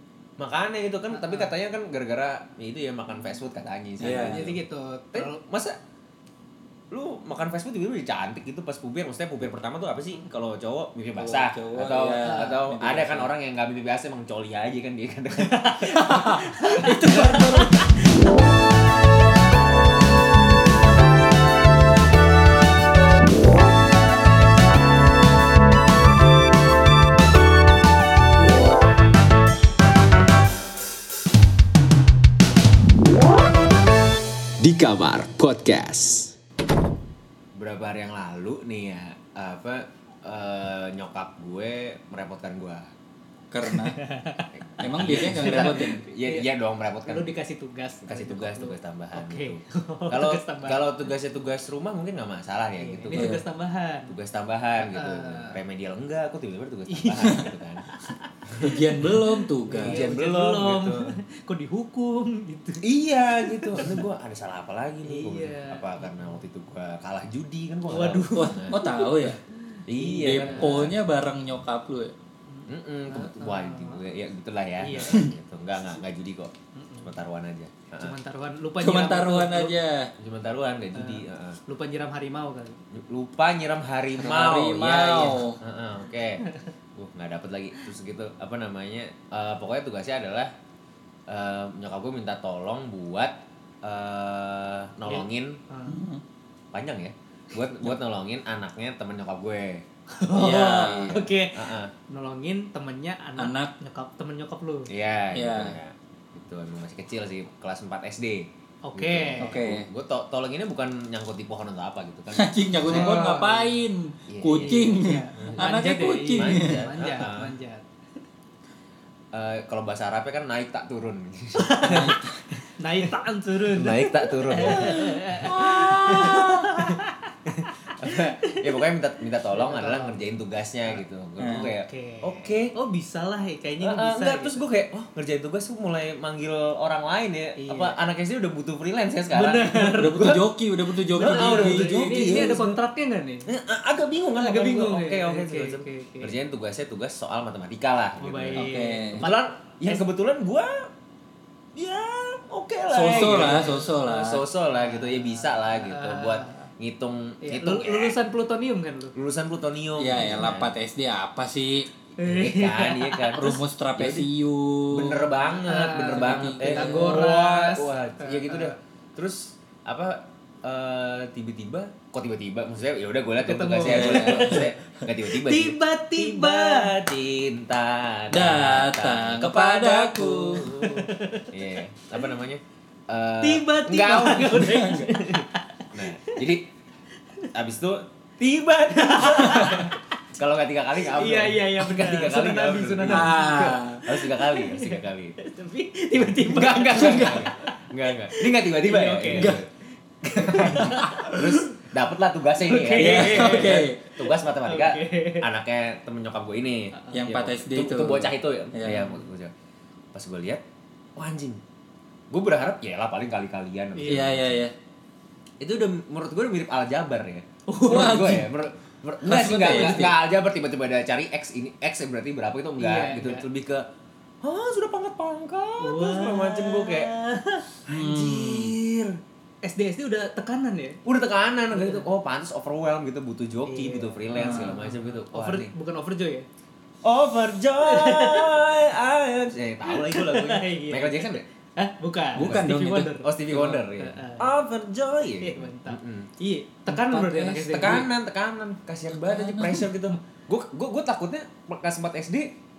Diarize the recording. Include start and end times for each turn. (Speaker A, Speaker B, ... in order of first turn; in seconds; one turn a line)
Speaker A: 0.4-4.6
Speaker B: 1.1-1.5
Speaker C: 4.0-4.5
Speaker B: 4.0-5.4
Speaker A: 5.2-5.8
Speaker A: 6.9-17.4
Speaker C: 11.2-13.3
Speaker B: 12.2-12.6
Speaker B: 15.4-18.0
Speaker C: 16.8-17.8
Speaker A: 34.6-36.3
Speaker A: 37.5-42.9
Speaker C: 43.5-44.0
Speaker B: 43.6-46.5
Speaker A: 44.5-47.3
Speaker C: 44.8-46.0
Speaker B: 47.1-50.9
Speaker A: 48.0-53.4
Speaker B: 52.8-54.1
Speaker C: 53.1-53.4
Speaker A: 54.1-57.9
Speaker B: 54.8-55.6
Speaker B: 56.9-58.3
Speaker A: 58.5-58.8
Speaker C: 58.6-60.0
Speaker B: 59.0-62.8
Speaker A: 59.7-61.1
Speaker A: 62.8-68.9
Speaker B: 63.5-64.0
Speaker B: 65.0-66.4
Speaker B: 67.9-70.9
Speaker C: 68.4-69.4
Speaker A: 69.9-71.0
Speaker C: 70.2-72.1
Speaker B: 72.5-74.0
Speaker A: 72.7-76.5
Speaker B: 74.8-75.3
Speaker B: 76.8-77.2
Speaker A: 77.0-78.2
Speaker B: 78.0-79.8
Speaker C: 78.8-80.1
Speaker A: 80.2-81.6
Speaker B: 81.0-82.8
Speaker A: 82.9-86.5
Speaker C: 84.2-85.6
Speaker B: 86.4-86.7
Speaker A: 87.0-90.5
Speaker A: 91.3-95.6
Speaker B: 95.1-96.0
Speaker C: 95.9-96.2
Speaker A: 96.7-99.8
Speaker B: 100.1-104.9
Speaker C: 100.3-101.2
Speaker A: 100.5-101.9
Speaker C: 103.4-103.7
Speaker A: 104.9-113.4
Speaker C: 105.3-105.8
Speaker B: 108.8-109.5
Speaker C: 109.4-109.9
Speaker C: 112.3-116.9
Speaker B: 112.8-113.7
Speaker A: 114.3-115.7
Speaker B: 114.5-117.8
Speaker A: 116.3-117.5
Speaker A: 119.3-122.2
Speaker B: 121.6-122.2
Speaker C: 121.9-122.2
Speaker B: 122.8-127.3
Speaker A: 123.7-132.7
Speaker C: 124.7-125.0
Speaker B: 128.0-128.8
Speaker B: 129.5-130.2
Speaker C: 131.4-131.7
Speaker B: 131.5-134.6
Speaker A: 133.8-140.5
Speaker B: 137.6-137.9
Speaker B: 139.3-140.4
Speaker C: 139.9-142.4
Speaker B: 141.1-143.5
Speaker A: 141.1-142.8
Speaker A: 143.5-150.9
Speaker B: 144.4-146.3
Speaker B: 148.2-150.1
Speaker C: 148.6-149.2
Speaker A: 151.8-158.2
Speaker C: 152.9-154.4
Speaker B: 153.0-153.9
Speaker B: 154.8-156.7
Speaker B: 157.4-159.1
Speaker A: 159.2-160.7
Speaker C: 160.0-161.9
Speaker B: 162.2-163.5
Speaker A: 162.2-164.3
Speaker C: 163.4-165.3
Speaker A: 164.9-186.7
Speaker B: 165.5-168.8
Speaker C: 166.1-167.2
Speaker B: 173.4-174.7
Speaker C: 173.8-174.7
Speaker B: 175.3-176.9
Speaker C: 178.3-180.8
Speaker B: 180.8-181.5
Speaker B: 183.4-186.4
Speaker A: 187.5-193.4
Speaker B: 188.9-190.0
Speaker B: 191.1-197.8
Speaker C: 193.1-194.0
Speaker A: 194.1-195.4
Speaker A: 196.2-199.7
Speaker B: 198.3-199.6
Speaker C: 199.3-199.6
Speaker A: 200.2-209.5
Speaker B: 200.3-201.4
Speaker C: 200.6-201.4
Speaker B: 202.6-205.5
Speaker C: 202.9-204.0
Speaker B: 207.0-207.2
Speaker C: 207.2-209.2
Speaker A: 210.1-210.6
Speaker A: 211.2-211.6
Speaker A: 212.3-214.6
Speaker B: 214.0-214.3
Speaker C: 214.1-214.7
Speaker A: 215.6-223.9
Speaker B: 217.7-218.3
Speaker C: 217.8-218.5
Speaker C: 219.2-220.2
Speaker B: 219.7-220.0
Speaker B: 222.8-223.4
Speaker A: 224.4-227.1
Speaker B: 225.8-227.7
Speaker C: 227.9-228.7
Speaker A: 227.9-229.2
Speaker B: 229.6-231.0
Speaker A: 231.1-235.7
Speaker B: 231.7-232.1
Speaker B: 233.7-236.5
Speaker C: 234.3-234.9
Speaker A: 237.0-241.4
Speaker B: 237.8-238.6
Speaker B: 239.8-244.5
Speaker C: 242.3-243.1
Speaker A: 242.4-246.3
Speaker B: 245.4-248.1
Speaker C: 246.9-248.1
Speaker A: 247.6-252.5
Speaker C: 249.1-249.9